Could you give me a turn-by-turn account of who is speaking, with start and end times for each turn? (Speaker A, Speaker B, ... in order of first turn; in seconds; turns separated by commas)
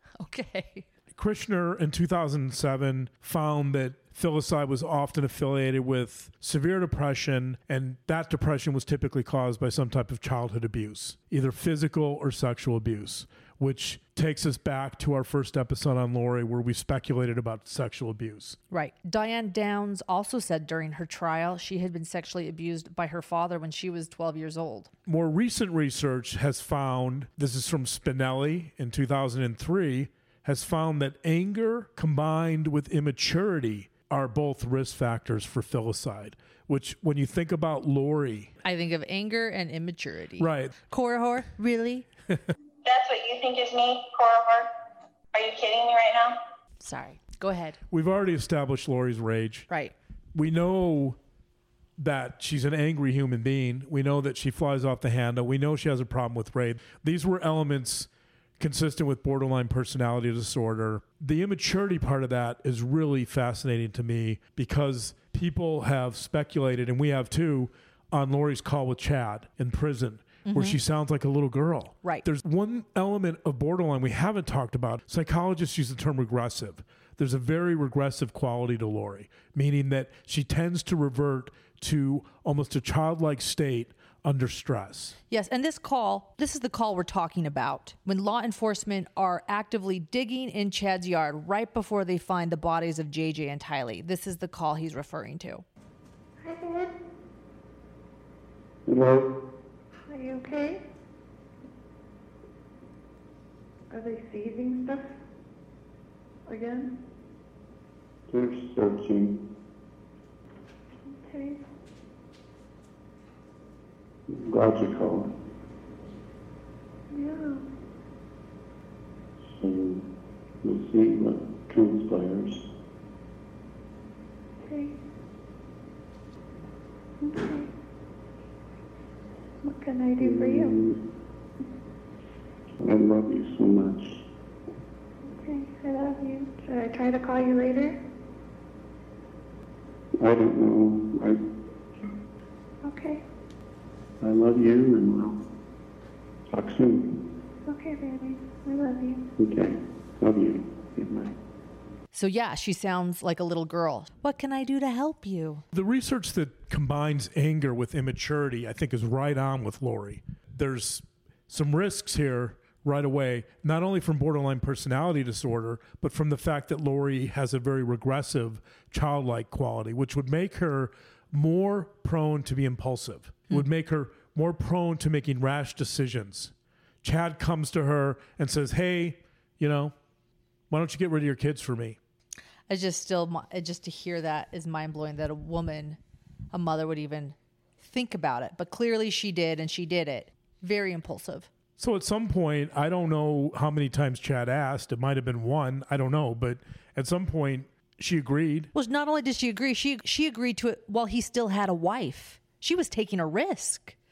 Speaker A: 0.2-0.8, Speaker B: 1.1-18.6, Speaker A: 18.7-24.9, Speaker B: 25.1-38.5, Speaker A: 38.6-42.1, Speaker B: 40.4-40.7, Speaker C: 42.9-44.7, Speaker C: 45.3-46.3, Speaker A: 46.8-47.8, Speaker B: 47.9-49.7, Speaker B: 50.3-51.2, Speaker B: 52.0-85.2, Speaker A: 70.5-70.8, Speaker A: 85.3-95.6, Speaker D: 96.4-96.9, Speaker E: 98.8-99.3, Speaker D: 100.1-100.8, Speaker D: 103.9-105.0, Speaker D: 106.5-107.0, Speaker E: 108.3-109.5, Speaker D: 111.1-111.6, Speaker E: 114.3-115.3, Speaker D: 117.1-117.6, Speaker E: 119.4-120.1, Speaker E: 120.6-122.7, Speaker D: 124.6-125.0, Speaker D: 127.2-127.7, Speaker D: 129.6-130.8, Speaker E: 130.2-131.1, Speaker E: 132.8-134.2, Speaker D: 135.3-138.0, Speaker E: 140.2-141.4, Speaker D: 142.8-143.2, Speaker E: 144.2-145.4, Speaker E: 146.5-147.4, Speaker D: 147.7-149.3, Speaker E: 149.4-151.3, Speaker A: 152.1-155.6, Speaker B: 155.7-179.9, Speaker B: 180.7-182.0, Speaker A: 182.7-186.0, Speaker A: 186.5-191.5, Speaker B: 191.8-198.7, Speaker A: 198.7-204.0